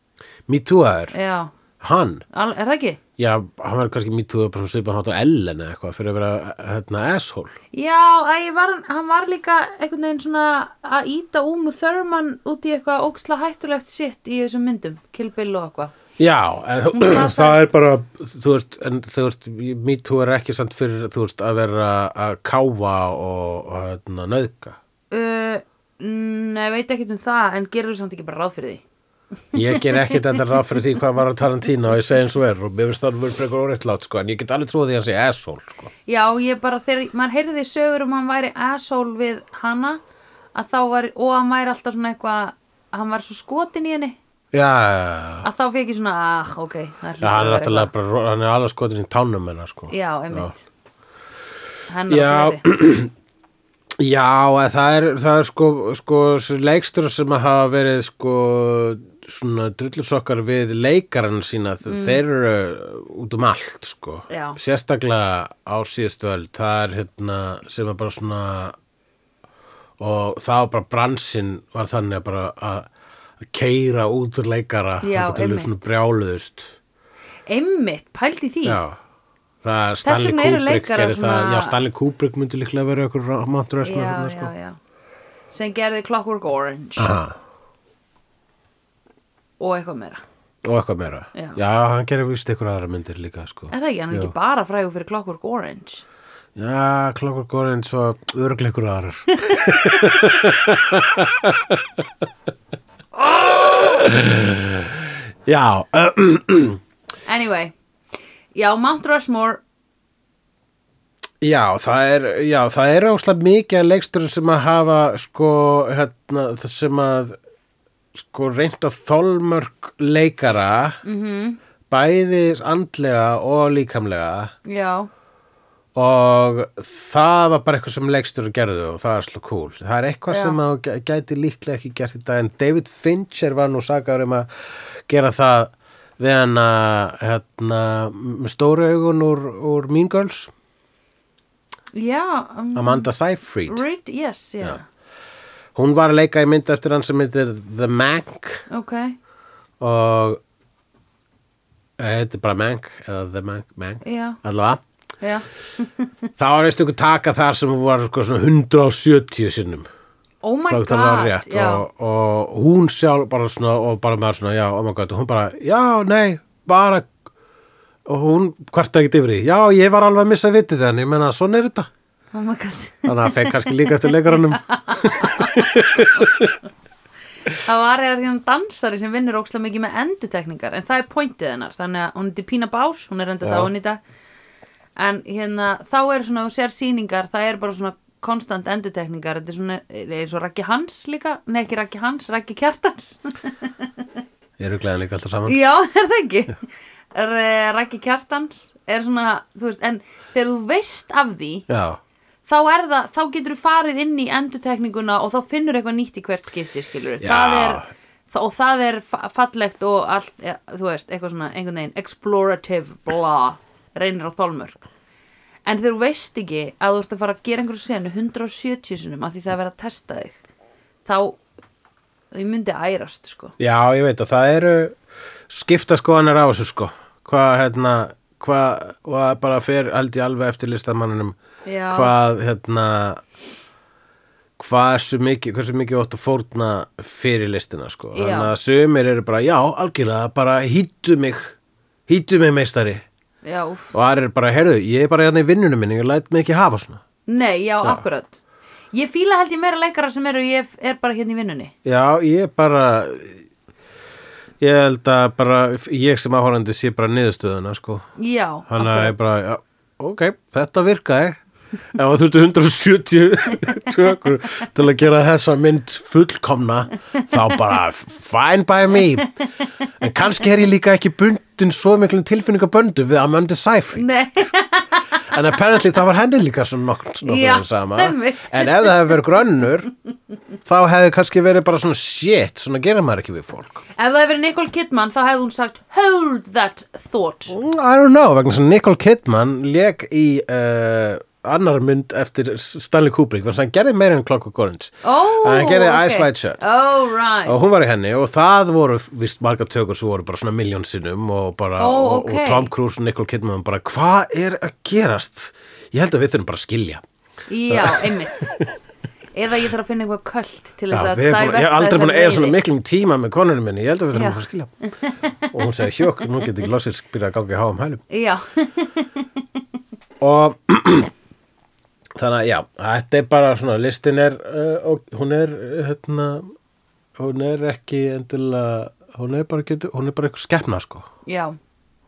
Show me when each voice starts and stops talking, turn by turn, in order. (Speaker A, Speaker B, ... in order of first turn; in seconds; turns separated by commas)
Speaker A: 0.5-1.1, Speaker B: 1.1-1.5, Speaker A: 1.8-2.2, Speaker B: 2.3-3.0, Speaker A: 3.2-7.5, Speaker B: 7.7-15.9, Speaker A: 16.2-24.8, Speaker B: 16.9-17.7, Speaker B: 25.1-28.8, Speaker B: 29.5-30.8, Speaker A: 29.5-35.9, Speaker B: 36.1-40.0, Speaker B: 40.5-44.2, Speaker A: 44.5-45.5, Speaker B: 45.4-47.9, Speaker A: 47.2-50.5, Speaker B: 49.9-50.6, Speaker B: 51.9-52.6, Speaker A: 52.1-53.1, Speaker A: 54.0-68.8, Speaker B: 61.9-62.2, Speaker B: 64.3-64.6, Speaker A: 70.0-72.9, Speaker A: 73.4-76.8, Speaker B: 75.0-75.8, Speaker B: 77.5-78.8, Speaker A: 78.7-79.0, Speaker A: 79.6-84.5, Speaker B: 80.0-81.8, Speaker B: 83.8-84.8, Speaker B: 85.5-87.1, Speaker A: 87.0-87.4, Speaker B: 89.6-90.2, Speaker A: 90.6-94.3, Speaker B: 91.3-91.6, Speaker B: 93.7-96.0, Speaker A: 96.6-102.1, Speaker B: 99.5-100.2, Speaker A: 103.1-106.8, Speaker B: 107.3-107.8, Speaker B: 108.5-109.6, Speaker A: 111.4-117.4, Speaker A: 118.2-121.0, Speaker B: 121.0-121.6, Speaker A: 121.9-124.5, Speaker B: 124.7-125.1, Speaker A: 126.0-140.5, Speaker B: 130.3-130.6, Speaker B: 141.9-143.1, Speaker A: 142.8-143.8, Speaker B: 143.7-144.8, Speaker A: 145.8-148.7, Speaker B: 148.7-149.2, Speaker A: 149.8-150.4, Speaker A: 152.0-154.8, Speaker B: 154.0-154.4, Speaker B: 155.2-156.1, Speaker A: 156.4-159.9, Speaker B: 160.4-161.8, Speaker A: 160.7-167.1, Speaker A: 168.1-171.9, Speaker B: 172.3-176.3, Speaker A: 173.1-176.5, Speaker B: 177.5-184.0, Speaker A: 183.4-183.7, Speaker B: 185.0-193.9, Speaker A: 194.6-195.6, Speaker B: 195.5-201.7, Speaker A: 201.7-202.0, Speaker B: 202.5-214.8, Speaker A: 207.2-207.9, Speaker B: 215.7-220.4, Speaker B: 221.1-221.4, Speaker B: 222.3-223.6, Speaker A: 223.6-225.0, Speaker A: 225.5-231.4, Speaker B: 231.7-232.1, Speaker A: 231.9-233.2, Speaker A: 234.6-241.6, Speaker B: 238.1-238.5, Speaker A: 242.1-243.1, Speaker B: 243.4-243.9, Speaker A: 243.9-247.0, Speaker B: 247.3-248.4, Speaker B: 248.9-251.7, Speaker A: 251.8-253.4, Speaker A: 254.6-258.1, Speaker B: 258.2-259.2, Speaker A: 258.7-261.4, Speaker A: 261.9-269.3, Speaker B: 269.2-269.9, Speaker A: 270.0-274.1, Speaker B: 273.9-275.3, Speaker A: 275.3-279.9, Speaker B: 277.2-279.2, Speaker A: 280.7-283.8, Speaker B: 284.0-287.6, Speaker A: 287.5-296.6, Speaker B: 295.0-297.7, Speaker A: 297.5-307.0, Speaker B: 301.8-302.7, Speaker B: 307.5-308.6, Speaker A: 307.7-308.7, Speaker B: 309.3-312.6, Speaker A: 310.9-314.7, Speaker B: 314.1-315.5, Speaker A: 315.5-318.0, Speaker B: 318.1-319.3, Speaker A: 320.2-321.1, Speaker A: 322.2-326.5, Speaker A: 327.2-331.1, Speaker B: 331.3-331.6